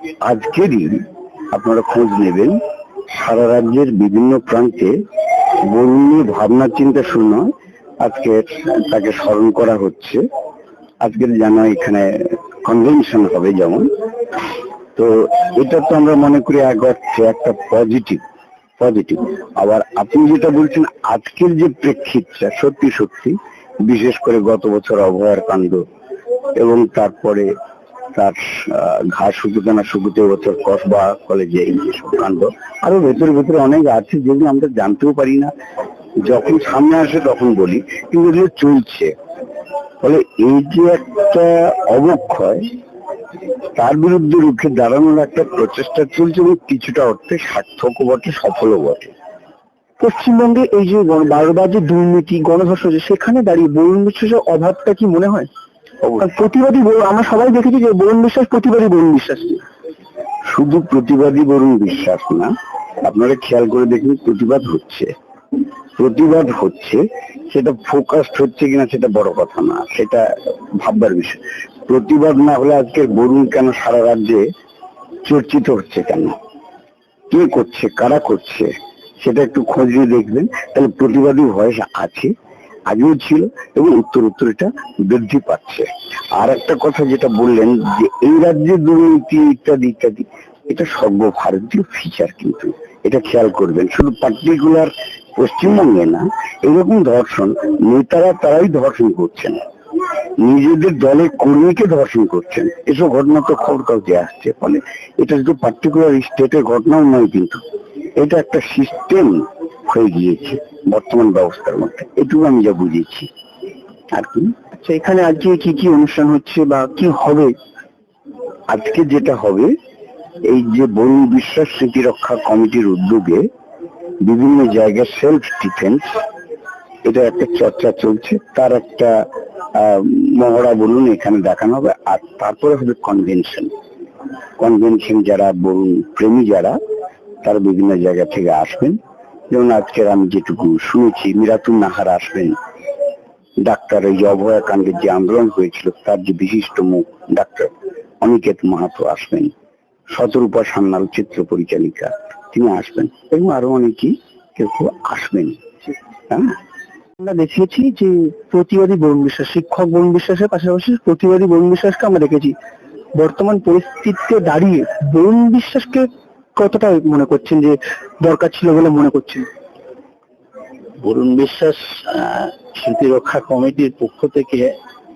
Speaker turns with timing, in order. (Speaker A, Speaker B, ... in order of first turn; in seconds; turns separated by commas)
Speaker A: 0.2-1.0, Speaker A: 1.5-2.6, Speaker A: 3.1-4.9, Speaker A: 5.7-7.5, Speaker A: 8.0-10.2, Speaker A: 11.0-13.8, Speaker A: 14.9-18.2, Speaker A: 18.8-25.8, Speaker A: 26.6-27.5, Speaker A: 28.1-35.5, Speaker A: 36.2-39.1, Speaker A: 40.0-42.7, Speaker A: 43.8-49.1, Speaker B: 50.0-55.5, Speaker B: 56.2-59.6, Speaker A: 60.5-62.5, Speaker A: 63.0-65.1, Speaker A: 66.0-70.2, Speaker A: 70.8-74.4, Speaker A: 75.2-76.3, Speaker A: 77.3-82.3, Speaker A: 82.9-99.6, Speaker A: 100.4-107.6, Speaker A: 108.2-113.3, Speaker A: 114.1-114.5, Speaker B: 114.7-117.5, Speaker A: 118.7-119.7, Speaker A: 120.5-123.5, Speaker A: 124.2-126.2, Speaker A: 127.0-129.1, Speaker A: 129.8-133.7, Speaker A: 134.6-136.8, Speaker A: 137.4-139.0, Speaker A: 139.5-142.6, Speaker A: 143.6-149.5, Speaker A: 150.1-155.6, Speaker A: 156.3-156.6, Speaker B: 157.2-162.5, Speaker B: 163.2-169.4, Speaker C: 171.0-174.7